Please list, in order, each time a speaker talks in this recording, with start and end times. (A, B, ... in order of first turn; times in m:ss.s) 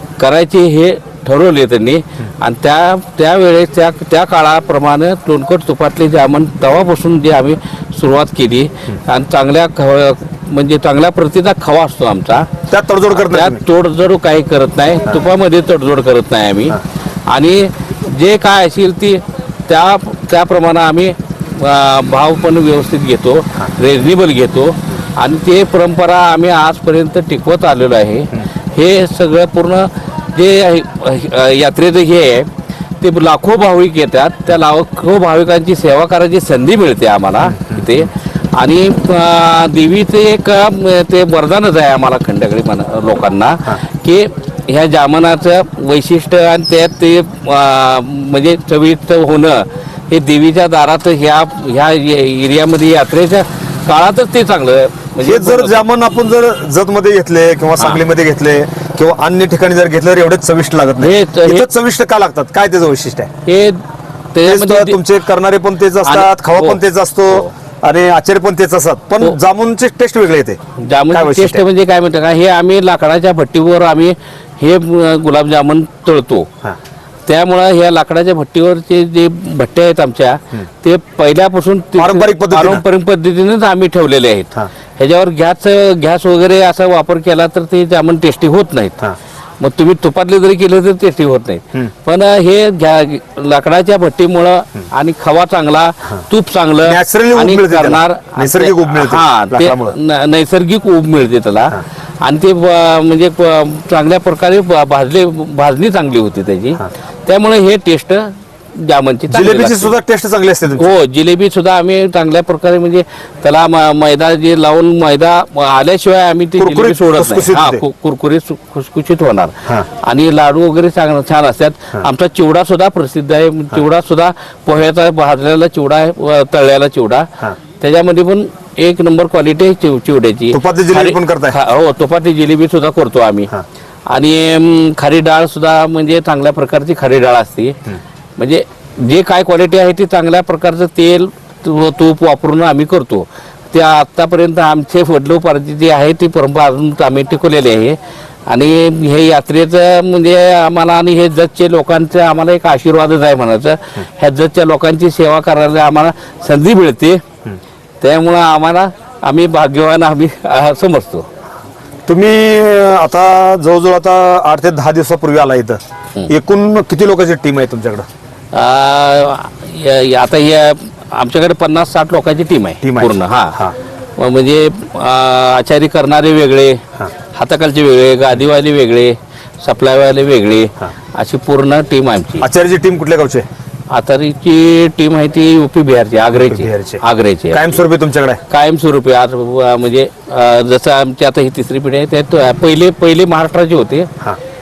0:00.2-0:12.5 A
0:12.7-0:13.6 B
0:13.1-0:55.8 A
0:37.5-0:38.0 B
0:55.2-1:03.3 B
1:01.0-1:01.7 A
1:03.5-1:03.8 A
1:04.3-1:05.0 A
1:04.4-1:10.6 B
1:06.0-1:07.5 A
1:10.8-1:16.5 A
1:11.1-1:11.6 B
1:17.3-1:50.0 A
1:22.0-1:22.8 B
1:36.8-1:40.0 B
1:49.3-1:50.9 B
1:50.8-2:13.5 A
1:56.6-1:57.8 B
2:10.5-2:11.6 B
2:14.1-2:17.8 A
2:18.4-2:37.2 A
2:38.0-2:41.3 A
2:42.1-2:48.1 B
2:48.5-3:02.5 A
2:52.8-2:53.7 B
3:02.4-3:03.5 B
3:03.9-3:07.8 A
3:06.3-3:08.4 B
3:08.5-3:14.1 A